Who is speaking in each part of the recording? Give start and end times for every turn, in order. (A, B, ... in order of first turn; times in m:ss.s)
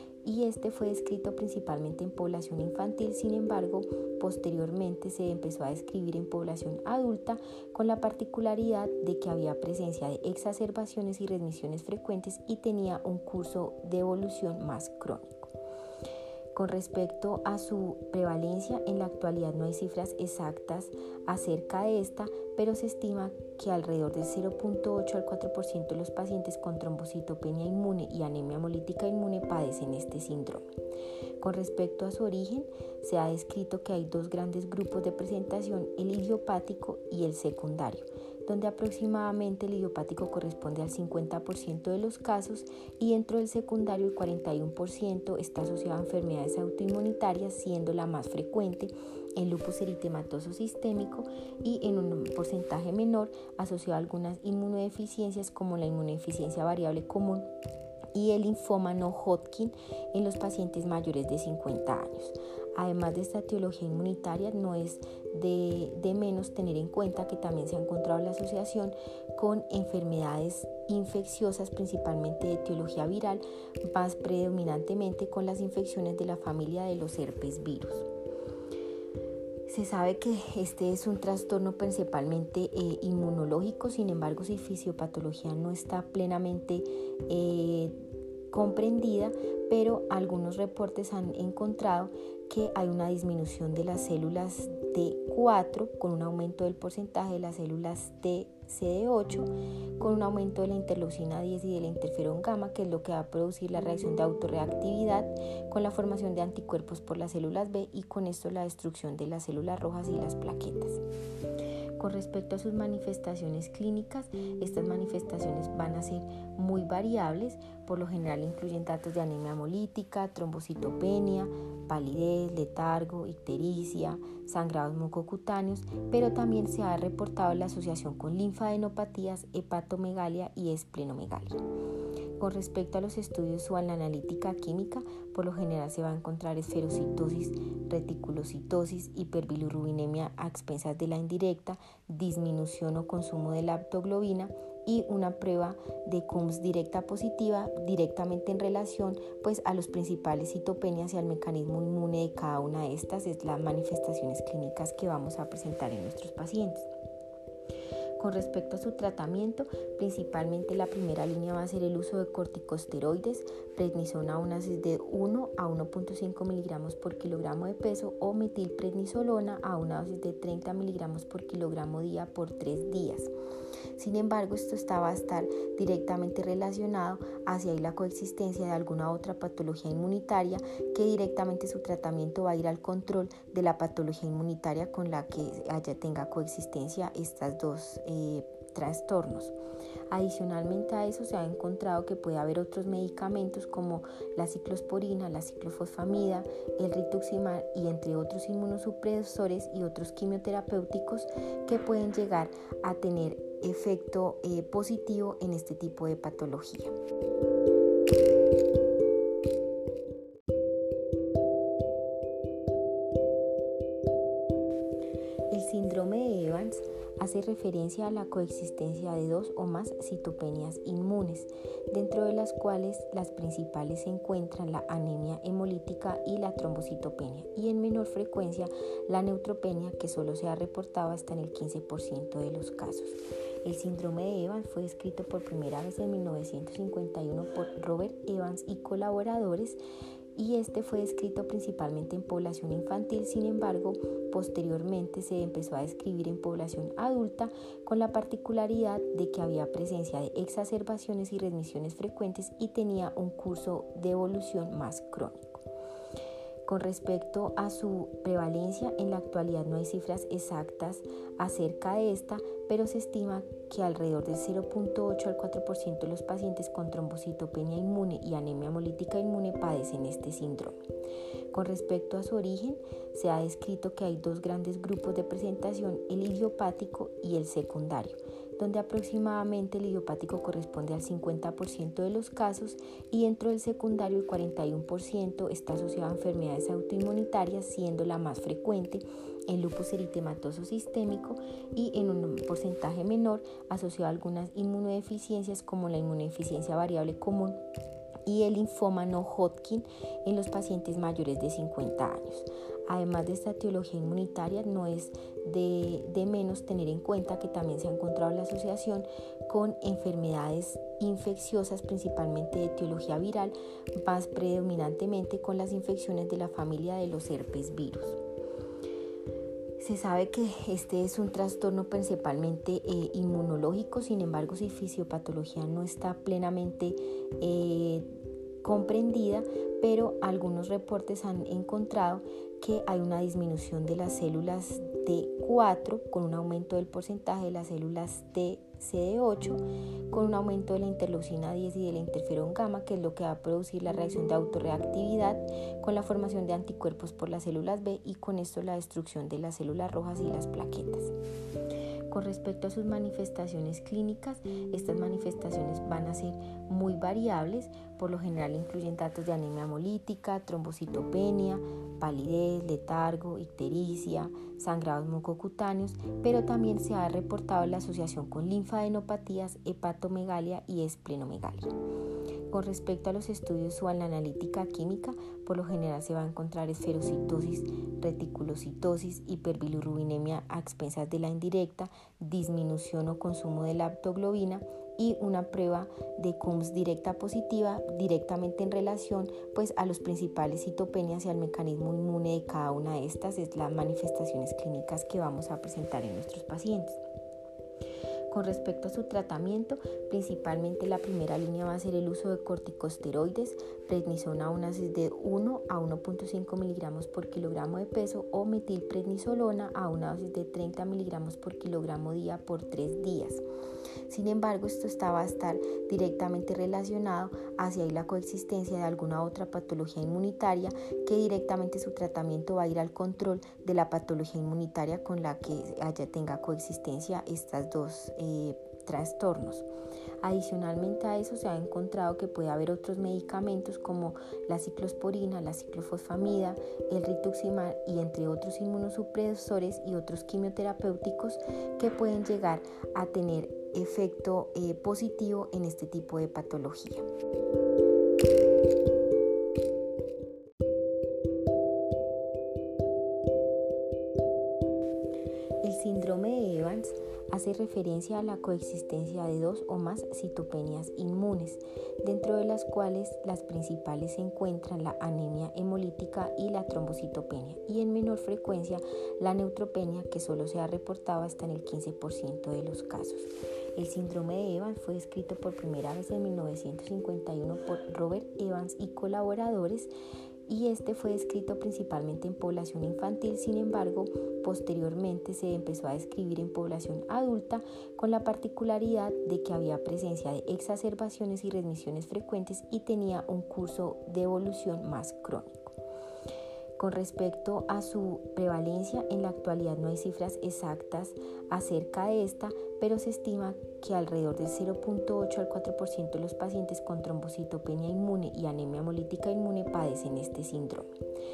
0:00.2-0:15.5 A
0:16.5-0:30.6 A
0:31.4-0:57.5 A
0:58.1-1:18.1 A
1:19.7-1:27.9 A
1:28.5-1:51.0 A
1:52.0-2:11.6 A
2:12.4-2:36.9 A
2:38.2-2:53.3 A
2:54.0-3:09.5 A
3:10.1-3:26.9 A
3:35.5-3:59.8 A
4:00.3-4:15.6 A
4:16.6-4:30.8 A
4:31.5-4:57.6 A
4:58.2-5:18.2 A
5:19.8-5:28.1 A
5:28.6-5:51.1 A
5:52.1-6:11.7 A
6:12.5-6:37.0 A
6:38.3-6:53.4 A
6:54.1-7:09.7 A
7:10.2-7:27.0 A
7:35.6-7:59.9 A
8:00.5-8:15.7 A
8:16.8-8:30.9 A